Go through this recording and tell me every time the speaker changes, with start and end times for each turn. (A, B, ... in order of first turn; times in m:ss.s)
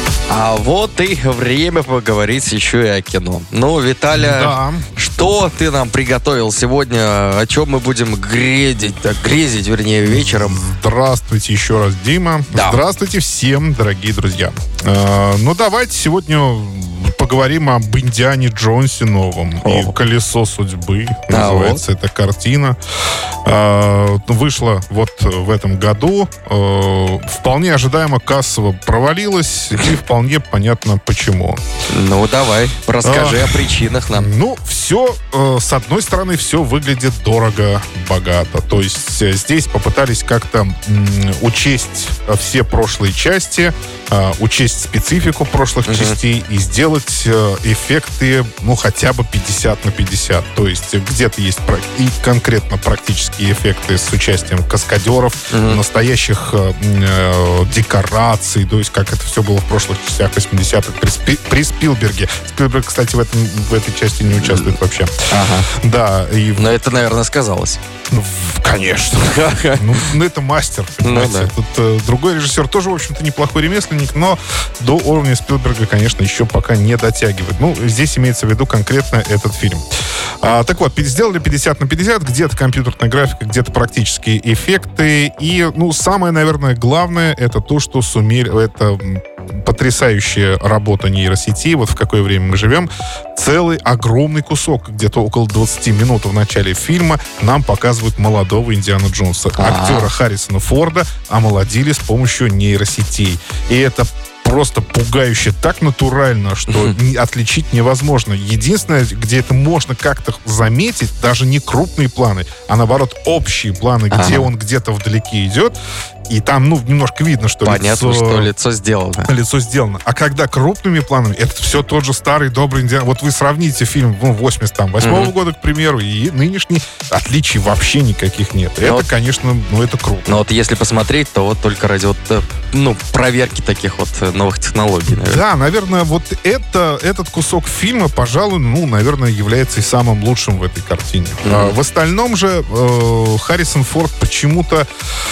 0:00.3-0:10.6 A
0:04.1-0:04.8 B
0:10.0-0:22.8 B
0:12.5-0:12.8 A
0:19.6-0:19.9 A
0:21.3-0:21.8 A
0:23.4-0:31.6 B
0:31.9-0:34.3 A
0:33.0-1:05.1 B
0:45.9-0:46.2 A
0:55.5-0:55.8 A
1:05.3-1:05.7 A
1:05.7-1:06.8 B
1:06.6-1:07.8 A
1:08.1-1:19.8 B
1:09.3-1:09.8 A
1:11.0-1:11.5 A
1:20.4-1:55.7 B
1:39.6-1:40.1 A
1:46.7-1:46.9 A
1:54.1-1:54.5 A
1:56.3-1:58.5 B
1:57.6-1:59.3 A
1:59.2-2:10.4 B
2:05.0-2:05.3 A
2:08.8-2:09.1 A
2:10.2-2:15.4 A
2:15.1-2:24.8 B
2:21.4-2:21.8 A